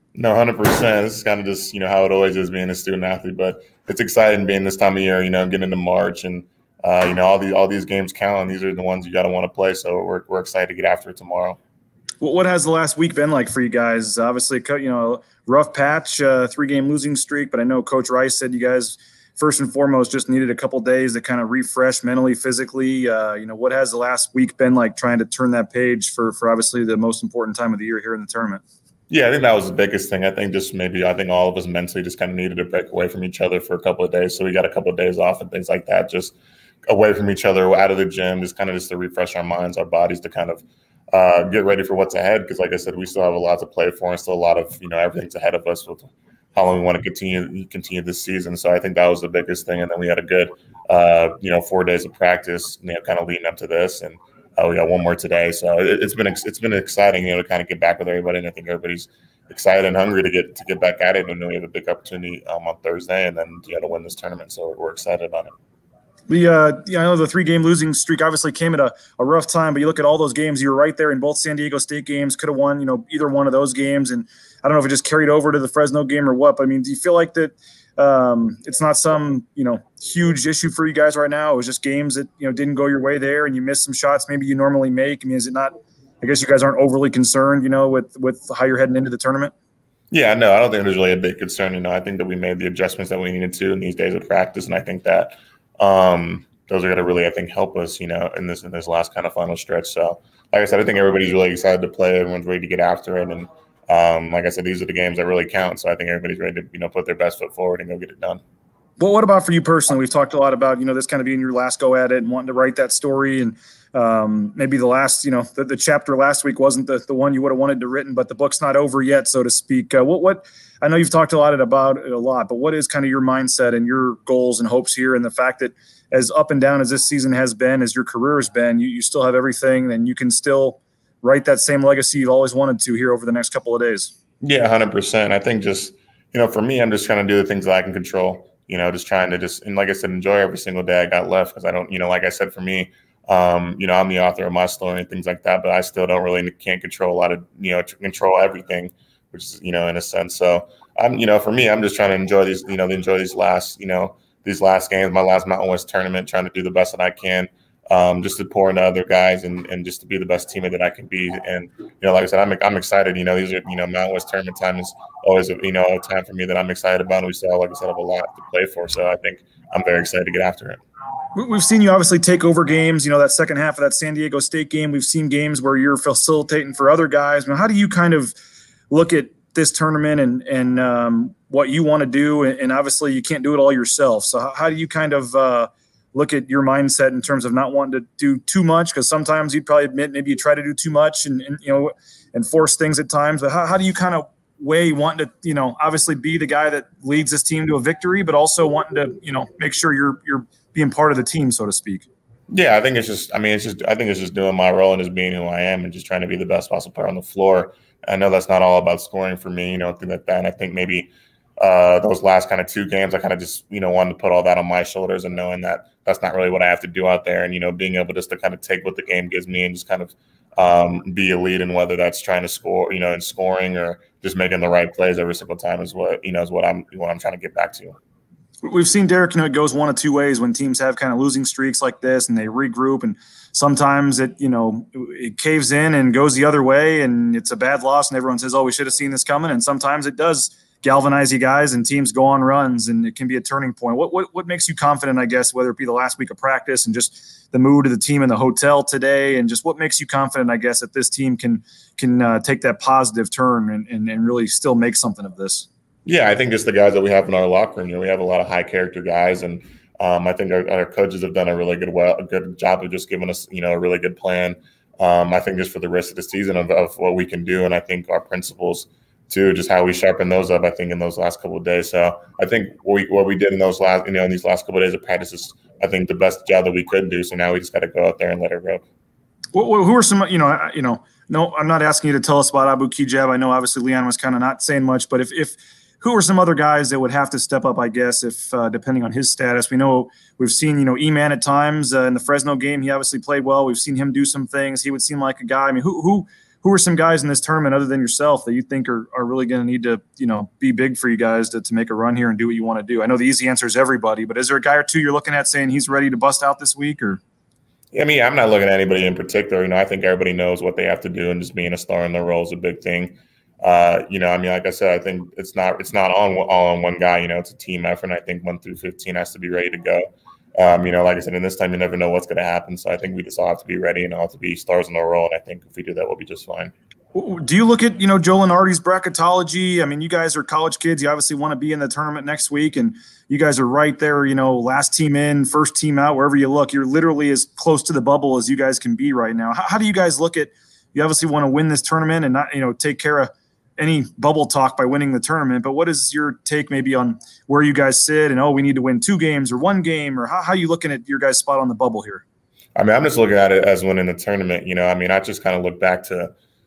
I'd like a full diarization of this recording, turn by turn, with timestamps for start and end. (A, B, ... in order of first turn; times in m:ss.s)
0:00.1-0:11.6 A
0:12.2-0:28.6 B
0:29.1-0:36.3 A
0:36.9-1:05.5 A
1:06.3-1:29.5 B
1:30.1-1:48.4 A
1:49.0-2:14.1 B
2:14.4-2:50.8 A
2:51.3-2:58.3 B
2:58.9-3:22.1 B
3:22.5-3:48.0 A
3:48.6-4:15.7 B
4:16.1-4:38.8 A
4:39.5-5:07.2 B
5:07.9-5:20.0 A
5:20.6-5:26.7 A
5:27.1-5:52.2 B
5:52.8-5:56.3 A